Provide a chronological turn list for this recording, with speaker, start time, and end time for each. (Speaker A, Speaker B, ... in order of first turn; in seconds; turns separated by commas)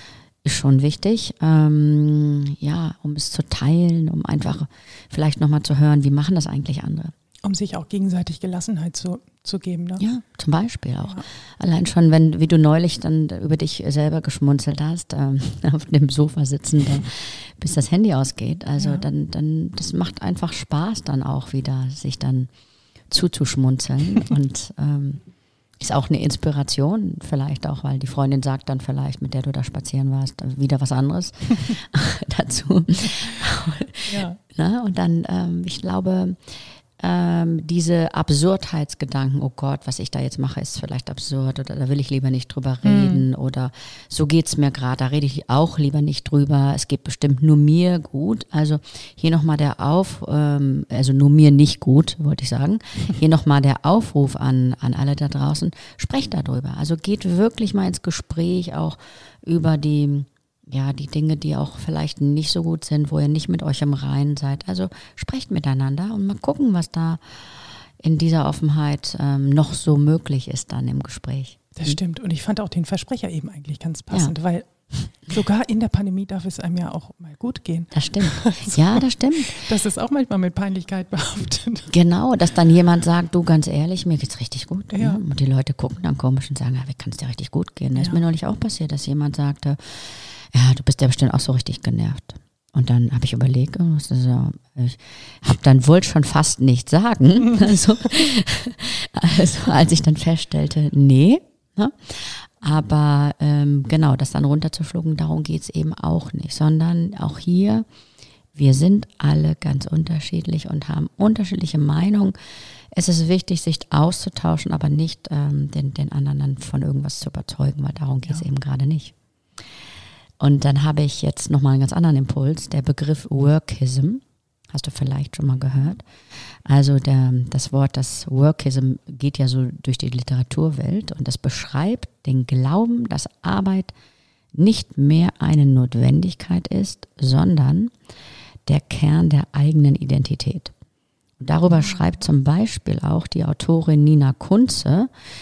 Speaker A: 0.4-7.1, Speaker B: 7.4-10.0, Speaker A: 10.0-22.5, Speaker B: 18.8-19.1, Speaker A: 23.1-25.2, Speaker A: 25.8-72.0, Speaker B: 34.1-34.4, Speaker B: 42.8-43.3, Speaker B: 71.8-81.9, Speaker A: 77.9-79.6, Speaker A: 81.9-107.9, Speaker B: 84.9-85.2, Speaker B: 88.0-88.2, Speaker A: 108.5-112.4, Speaker A: 112.9-119.1, Speaker A: 120.4-133.9, Speaker A: 134.5-137.9, Speaker A: 138.7-140.7, Speaker A: 141.4-145.1, Speaker B: 141.8-142.1